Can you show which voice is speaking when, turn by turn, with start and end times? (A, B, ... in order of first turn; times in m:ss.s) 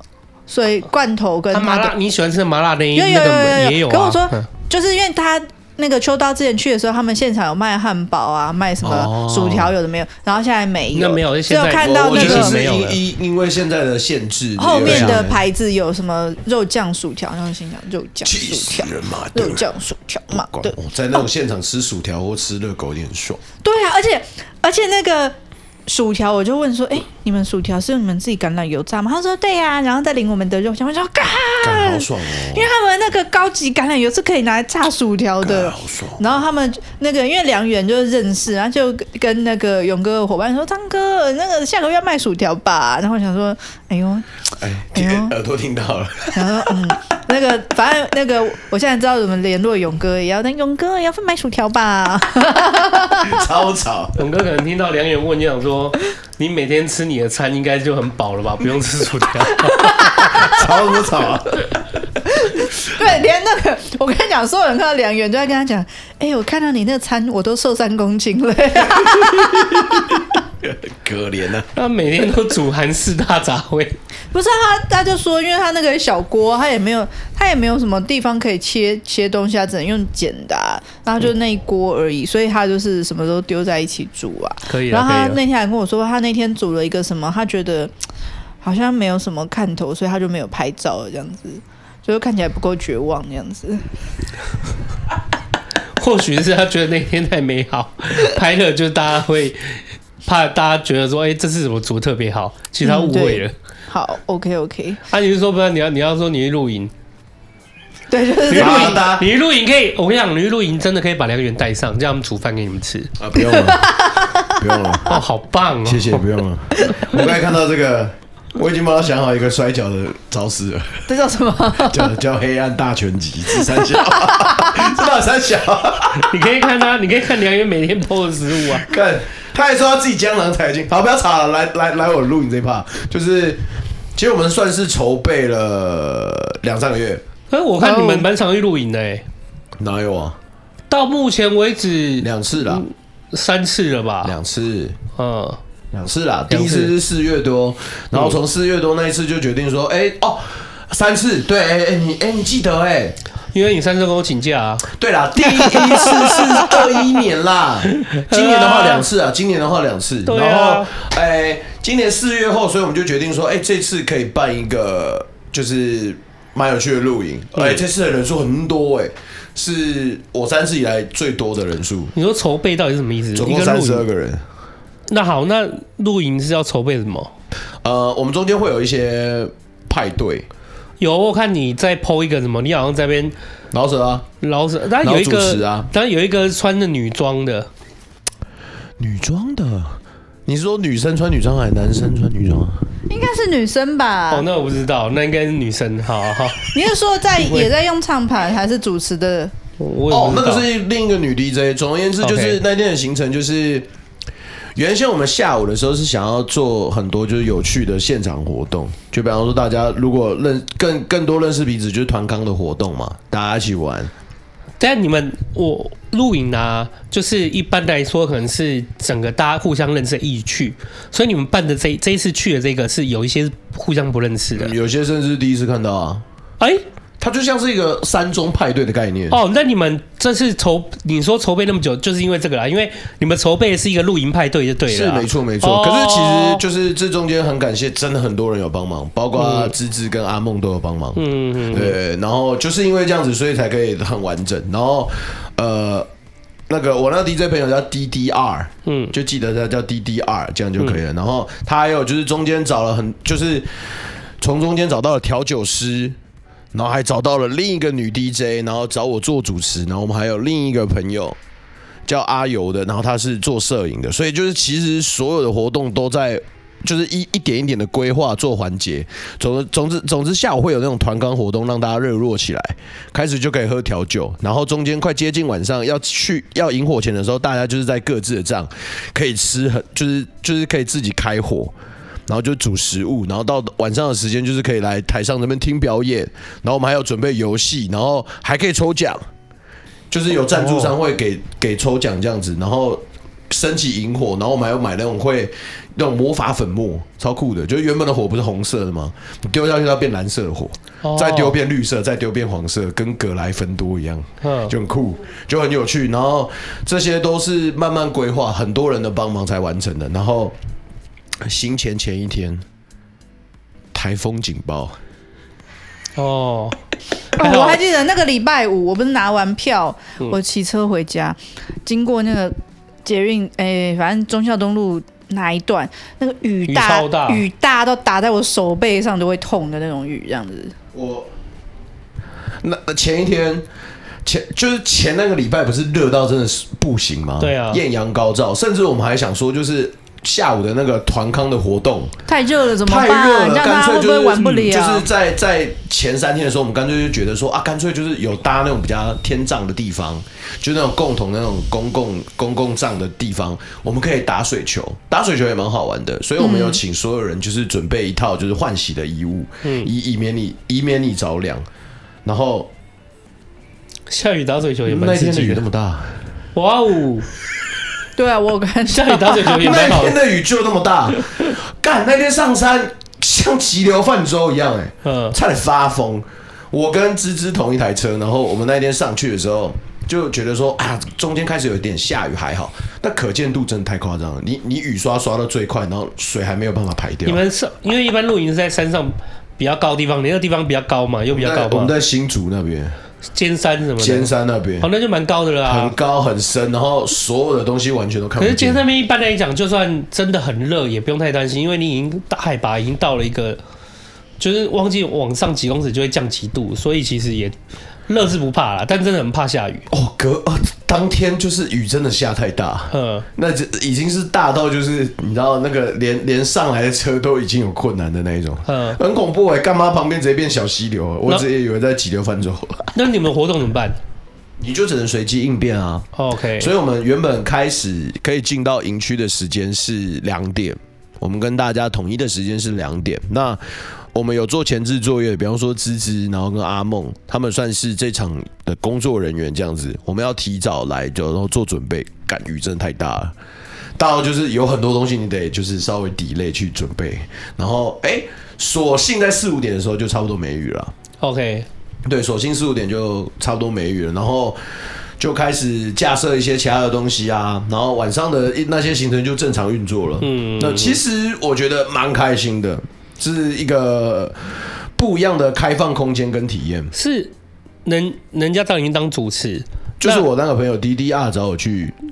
0:00.5-0:01.9 A
0:01.5-0:04.5 B
0:02.9-0:12.6 A
0:08.8-0:09.7 C
0:10.9-0:13.0 B
0:11.8-0:15.4 C
0:14.6-0:20.7 A
0:14.8-0:15.2 B
0:18.2-0:19.6 C
0:20.3-0:23.4 C
0:23.6-0:25.3 A
0:25.9-0:44.3 A
0:31.6-0:32.7 C
0:35.4-0:36.4 C
0:44.6-0:46.7 C
0:44.9-0:45.3 A
0:46.3-0:53.4 A
0:53.2-0:54.2 C
0:54.2-1:00.1 B
0:59.6-1:00.7 A
1:00.2-1:02.0 C
1:02.4-1:10.2 A
1:08.8-1:11.7 C
1:11.7-1:14.0 B
1:14.3-1:27.9 A
1:24.7-1:25.4 B
1:28.6-1:33.8 A
1:36.0-1:43.5 B
1:42.8-1:45.0 A
1:45.1-1:46.9 B
1:48.1-1:49.0 A
1:48.5-1:53.1 B
1:48.5-1:49.3 C
1:53.2-1:55.2 C
1:53.4-1:55.0 A
1:55.0-1:56.2 B
1:55.8-2:01.1 C
1:56.8-1:57.1 A
2:01.1-2:02.1 A
2:01.8-2:06.3 C
2:03.7-2:04.9 A
2:06.3-2:08.9 B
2:08.7-2:17.2 C
2:17.5-2:19.2 B
2:17.8-2:18.3 A
2:19.8-2:20.4 C
2:20.9-2:24.3 B
2:22.2-2:22.8 C
2:24.2-2:25.0 C
2:25.2-2:25.6 B
2:25.9-2:33.2 C
2:26.5-2:26.9 B
2:33.5-2:34.9 B
2:34.9-2:52.1 C
2:35.5-2:36.7 B
2:38.0-2:39.0 B
2:40.2-2:40.9 B
2:52.1-2:54.0 B
2:53.3-2:54.4 C
2:55.1-2:57.3 B
2:57.8-3:00.5 C
3:01.0-3:03.3 B
3:03.7-3:04.2 C
3:04.4-3:07.7 B
3:05.0-3:05.9 C
3:09.0-3:12.8 C
3:13.1-3:14.5 A
3:14.3-3:16.7 B
3:16.7-3:19.5 A
3:17.4-3:17.7 B
3:19.8-3:20.7 B
3:20.1-3:23.9 C
3:22.2-3:22.6 B
3:24.7-3:34.1 C
3:34.8-3:44.7 B
3:44.5-3:46.2 C
3:47.2-3:49.4 C
3:49.3-3:56.6 B
3:54.9-4:06.1 C
3:59.4-3:59.7 B
4:01.1-4:02.0 B
4:06.7-4:13.9 C
4:08.8-4:09.1 B
4:14.4-4:16.2 C
4:16.7-4:21.4 C
4:22.0-4:41.7 C
4:42.3-4:49.2 C
4:50.1-5:10.6 C
4:50.5-4:50.9 B
5:01.0-5:01.6 B
5:04.4-5:04.7 B
5:11.4-5:12.6 C
5:13.9-5:15.0 C
5:16.2-5:16.8 B
5:17.4-5:17.8 B
5:17.4-5:30.7 A
5:26.7-5:27.4 B
5:30.9-5:31.3 C
5:32.6-5:33.6 C
5:34.2-5:42.1 C
5:37.4-5:37.8 B
5:42.3-5:45.0 A
5:42.8-6:01.6 C
5:56.4-5:56.8 A
5:59.6-5:59.9 B
6:02.2-6:02.7 C
6:04.1-6:05.6 B
6:04.9-6:06.2 C
6:06.5-6:07.3 B
6:08.1-6:09.8 A
6:08.9-6:10.2 B
6:09.5-6:27.4 C
6:15.0-6:15.4 B
6:27.2-6:31.9 B
6:31.3-6:32.9 C
6:33.3-6:35.9 B
6:34.0-6:34.9 C
6:35.6-6:38.8 C
6:38.4-6:43.6 B
6:44.4-6:47.5 B
6:48.1-6:49.9 B
6:49.9-7:02.9 C
6:52.9-6:53.2 B
6:58.6-6:59.0 B
7:02.9-7:04.0 B
7:04.6-7:23.3 C
7:06.2-7:06.7 B
7:24.0-7:30.9 C
7:31.2-7:31.7 B
7:32.0-7:34.6 C
7:35.2-7:46.9 C
7:40.2-7:41.0 B
7:46.9-7:47.3 B
7:47.8-7:50.3 B
7:50.0-7:52.0 C